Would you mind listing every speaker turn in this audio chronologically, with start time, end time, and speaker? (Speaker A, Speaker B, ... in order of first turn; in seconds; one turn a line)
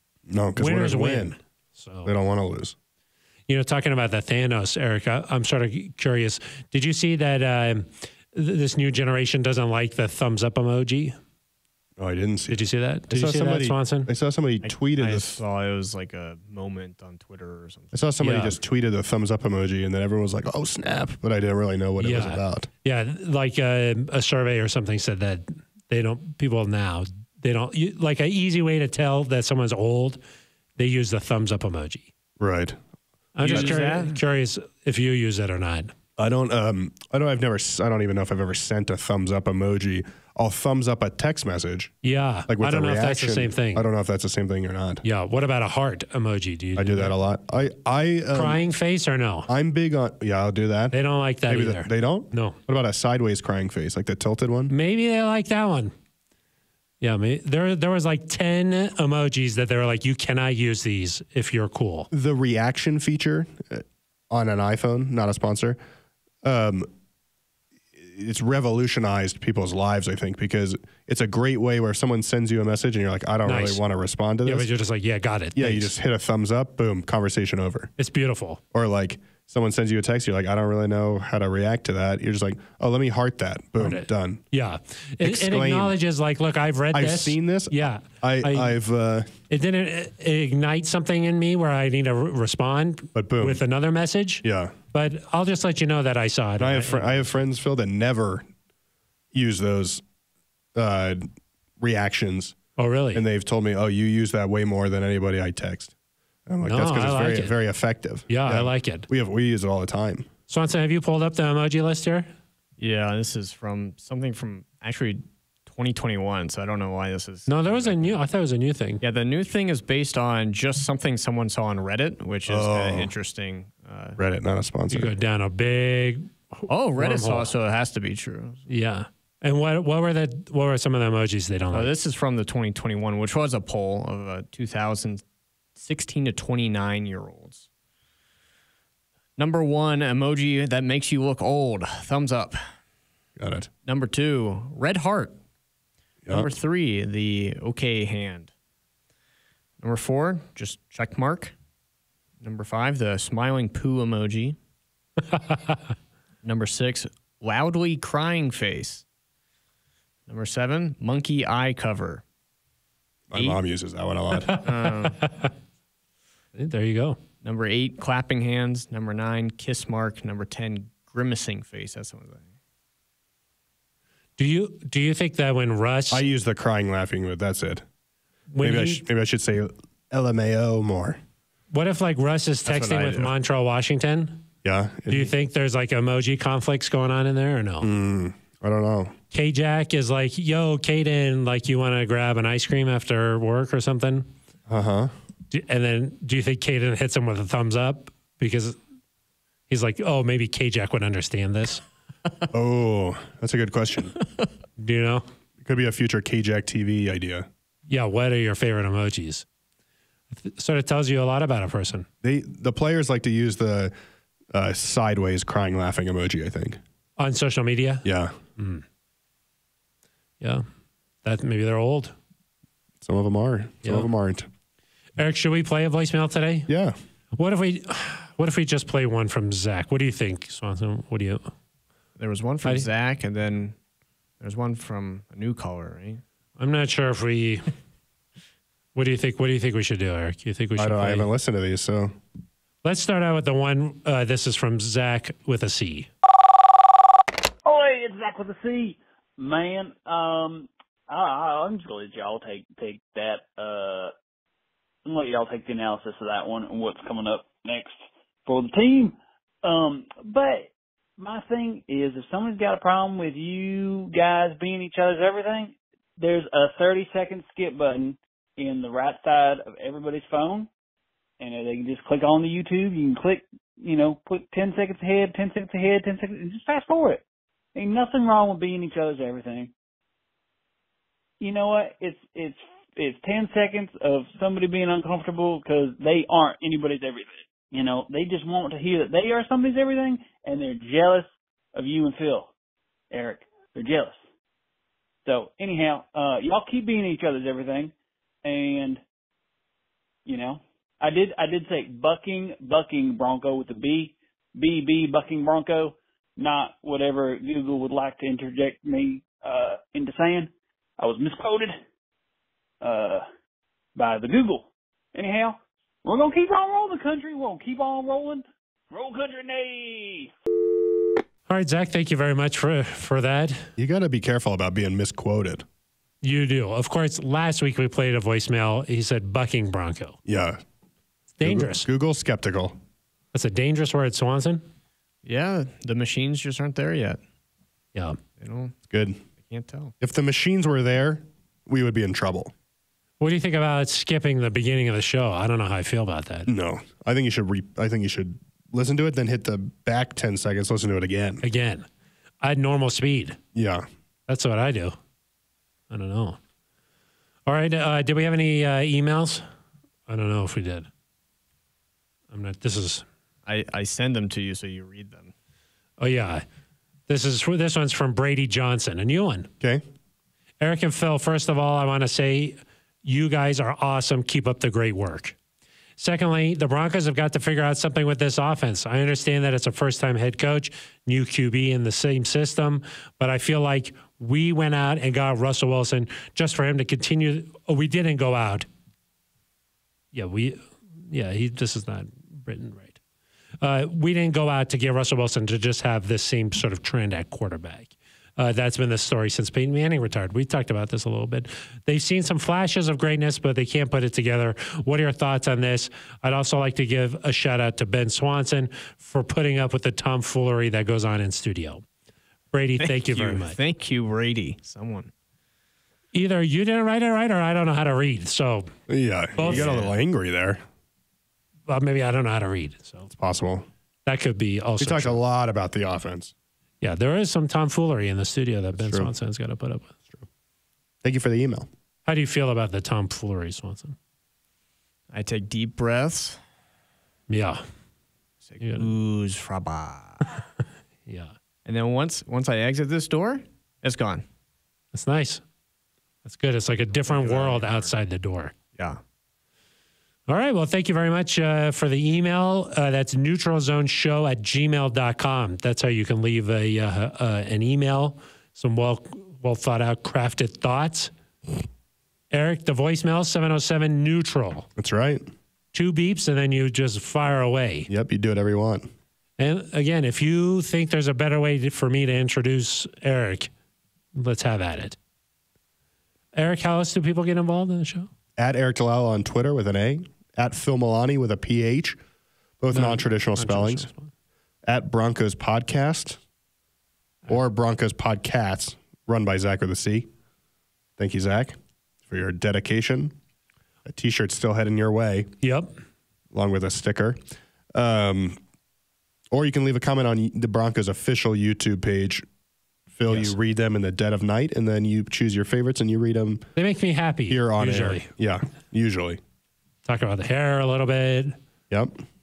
Speaker A: 0.3-1.4
Speaker B: 0.6-2.1
Speaker A: 2.0-2.8
Speaker B: 3.5-11.2
Speaker A: 12.0-15.4
Speaker B: 12.5-14.1
Speaker C: 14.6-18.0
Speaker A: 17.9-22.7
Speaker B: 18.2-18.5
Speaker B: 22.0-30.2
Speaker B: 30.8-32.1
Speaker A: 32.4-32.8
Speaker B: 33.3-35.9
Speaker A: 33.4-33.7
Speaker C: 33.5-34.2
Speaker A: 36.2-41.9
Speaker B: 42.0-43.9
Speaker A: 42.5-45.0
Speaker B: 45.0-47.1
Speaker A: 46.8-48.6
Speaker B: 48.3-49.5
Speaker A: 49.5-50.9
Speaker B: 50.9-52.6
Speaker A: 51.5-54.7
Speaker B: 54.7-55.9
Speaker B: 57.0-62.1
Speaker A: 62.1-65.8
Speaker A: 66.4-66.9
Speaker A: 68.0-74.7
Speaker B: 73.4-73.8
Speaker B: 74.4-75.9
Speaker A: 75.5-77.9
Speaker B: 78.0-78.6
Speaker A: 78.7-84.4
Speaker B: 83.8-88.8
Speaker A: 85.2-85.9
Speaker A: 86.9-89.3
Speaker B: 89.5-97.3
Speaker A: 93.1-93.6
Speaker A: 94.4-94.7
Speaker A: 96.6-98.5
Speaker A: 99.3-100.0
Speaker A: 100.7-101.3
Speaker A: 101.8-102.5
Speaker B: 102.8-103.2
Speaker A: 103.1-105.9
Speaker A: 106.5-110.3
Speaker B: 106.6-107.5
Speaker B: 108.3-109.1
Speaker B: 110.5-112.3
Speaker C: 112.8-118.2
Speaker B: 117.5-119.0
Speaker C: 119.0-124.2
Speaker A: 122.5-123.1
Speaker A: 124.2-125.1
Speaker B: 124.9-127.5
Speaker C: 126.7-128.7
Speaker B: 128.7-131.9
Speaker C: 131.7-135.2
Speaker C: 135.8-137.7
Speaker C: 139.4-142.7
Speaker A: 143.4-143.7
Speaker C: 143.8-145.3
Speaker C: 146.3-148.5
Speaker C: 149.8-151.5
Speaker C: 152.4-154.6
Speaker B: 155.3-155.8
Speaker C: 156.4-159.0
Speaker C: 160.3-162.2
Speaker A: 163.3-164.6
Speaker C: 163.3-163.6
Speaker B: 164.4-165.5
Speaker C: 164.6-165.3
Speaker B: 166.5-167.2
Speaker C: 167.4-172.5
Speaker B: 174.4-176.2
Speaker A: 176.1-177.8
Speaker B: 178.5-179.0
Speaker A: 178.6-181.2
Speaker B: 181.7-184.4
Speaker A: 182.7-183.3
Speaker A: 184.6-185.3
Speaker B: 185.1-187.9
Speaker A: 187.8-189.1
Speaker B: 189.3-194.3
Speaker A: 194.7-195.1
Speaker B: 195.5-198.8
Speaker B: 199.7-201.8
Speaker A: 202.5-204.2
Speaker B: 204.8-205.2
Speaker A: 205.6-207.5
Speaker B: 207.9-209.4
Speaker B: 210.3-212.1
Speaker A: 212.2-213.9
Speaker A: 214.5-216.8
Speaker B: 217.2-218.1
Speaker A: 218.0-218.4
Speaker B: 218.6-218.8
Speaker B: 220.4-220.7
Speaker B: 221.2-222.1
Speaker A: 223.0-224.5
Speaker B: 223.8-224.1
Speaker B: 225.2-226.7
Speaker A: 226.7-226.9
Speaker B: 227.3-231.5
Speaker C: 232.2-233.8
Speaker C: 234.4-236.2
Speaker B: 236.6-237.7
Speaker B: 238.9-241.3
Speaker A: 240.8-242.1
Speaker B: 242.8-246.1
Speaker D: 247.6-254.1
Speaker D: 255.0-257.9
Speaker D: 258.4-270.7
Speaker D: 271.4-277.2
Speaker D: 277.7-279.7
Speaker D: 281.4-292.5
Speaker D: 293.1-294.2
Speaker D: 295.2-297.9
Speaker D: 298.4-299.0
Speaker D: 300.2-311.8
Speaker D: 312.8-313.2
Speaker D: 313.9-320.3
Speaker B: 321.5-323.7
Speaker A: 323.8-325.6
Speaker B: 326.2-330.2
Speaker A: 330.2-330.6
Speaker B: 331.4-331.9
Speaker A: 331.4-332.8
Speaker B: 333.3-334.6
Speaker C: 335.2-337.2
Speaker C: 338.4-338.8
Speaker A: 338.9-339.2
Speaker C: 339.4-339.9
Speaker A: 340.0-342.5
Speaker B: 343.2-346.5
Speaker A: 346.5-351.4
Speaker B: 351.4-351.9
Speaker B: 352.4-353.4
Speaker A: 353.5-353.9
Speaker B: 354.3-355.0
Speaker B: 355.9-356.4
Speaker B: 357.5-359.4
Speaker B: 360.1-360.9
Speaker B: 362.3-363.1
Speaker C: 363.4-365.3
Speaker B: 366.0-366.4
Speaker B: 367.1-369.5
Speaker B: 370.6-375.4
Speaker B: 376.0-388.7
Speaker B: 390.1-393.0
Speaker B: 393.6-411.8
Speaker B: 412.5-413.6
Speaker C: 412.8-415.1
Speaker B: 416.1-418.7
Speaker A: 418.9-420.6
Speaker B: 419.4-419.8
Speaker C: 419.4-419.9
Speaker B: 421.7-423.1
Speaker A: 423.1-423.7
Speaker B: 424.1-425.2
Speaker A: 424.8-426.3
Speaker B: 426.8-429.9
Speaker A: 428.7-429.1
Speaker A: 431.0-431.7
Speaker B: 432.1-433.9
Speaker C: 435.1-436.4
Speaker B: 437.3-437.6
Speaker C: 438.4-440.3
Speaker B: 438.6-438.9
Speaker B: 441.1-441.3
Speaker C: 441.6-444.2
Speaker B: 444.9-445.4
Speaker B: 446.2-448.5
Speaker C: 447.0-447.9
Speaker B: 450.3-461.1
Speaker B: 462.3-464.7
Speaker A: 464.8-465.2
Speaker B: 465.7-467.9
Speaker A: 467.9-468.9
Speaker B: 469.4-473.5
Speaker B: 474.1-475.0
Speaker B: 476.3-478.1
Speaker A: 478.4-482.0
Speaker A: 482.6-483.9
Speaker B: 482.7-484.1
Speaker A: 484.6-486.2
Speaker A: 487.3-490.1
Speaker A: 491.0-493.1
Speaker A: 493.8-495.3
Speaker B: 495.4-495.8
Speaker A: 496.3-497.2
Speaker A: 497.7-498.4
Speaker A: 499.3-502.2
Speaker A: 502.9-506.5
Speaker B: 503.1-503.3
Speaker B: 506.6-508.1
Speaker A: 507.3-509.2
Speaker B: 509.8-511.4
Speaker A: 511.7-512.0